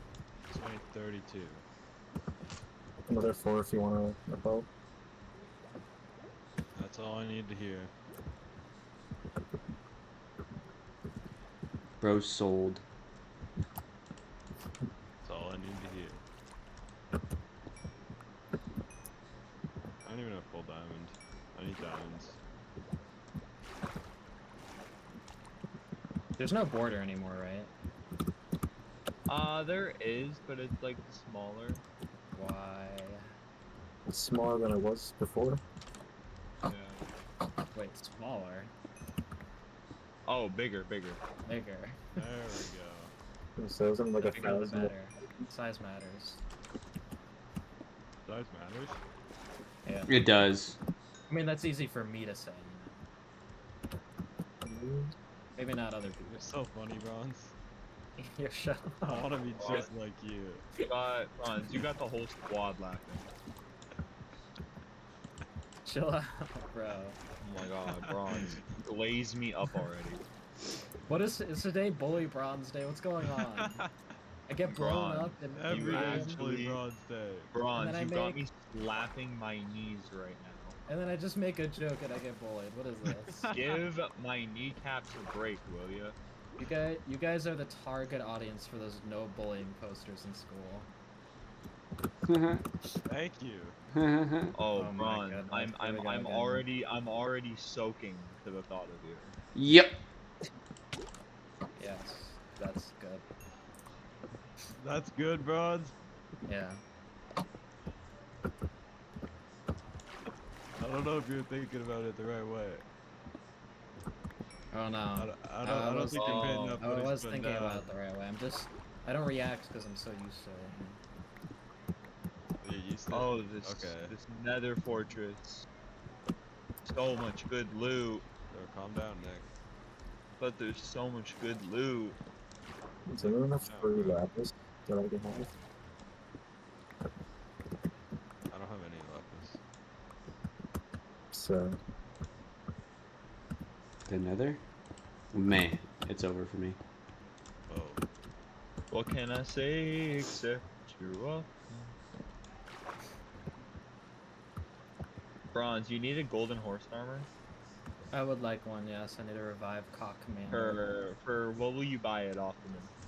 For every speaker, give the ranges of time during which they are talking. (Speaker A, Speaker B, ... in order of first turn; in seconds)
Speaker A: 0.5-1.6, 6.7-7.9, 15.2-16.2, 20.0-22.4, 42.1-43.1, 48.2-49.0, 56.3-57.5, 59.0-60.7, 67.9-68.6, 73.2-73.8, 75.5-77.6, 83.3-83.9, 93.0-93.8, 104.8-105.9, 110.8-112.8, 115.1-117.9, 122.6-124.1, 128.5-129.5, 133.2-134.2, 138.5-139.6, 147.7-148.1
Speaker B: 3.1-4.7, 34.0-35.6, 43.6-44.9, 54.6-55.1, 133.1-135.5, 141.3-141.8
Speaker C: 12.0-12.8, 50.1-50.8, 92.3-92.7, 93.9-94.5, 99.5-100.0, 144.1-144.6, 145.3-146.8
Speaker D: 26.4-27.7, 32.3-33.3, 37.7-38.7, 41.4-42.0, 44.2-46.4, 49.8-50.1, 51.3-53.0, 55.5-56.5, 58.2-59.8, 65.8-67.2, 71.1-73.8, 74.5-76.4, 77.7-78.4, 80.9-83.5, 86.6-90.9, 94.7-96.7, 101.8-103.2, 106.5-106.8, 114.7-121.0, 158.1-160.8
Speaker E: 29.3-31.8, 36.6-37.1, 40.2-41.2, 59.5-59.9, 60.8-63.3, 67.4-70.2, 74.6-76.8, 77.5-80.8, 83.5-86.2, 94.5-99.3, 116.1-116.8, 123.1-125.7, 126.8-128.2, 130.4-132.2, 148.9-151.9, 155.5-157.3, 160.5-162.9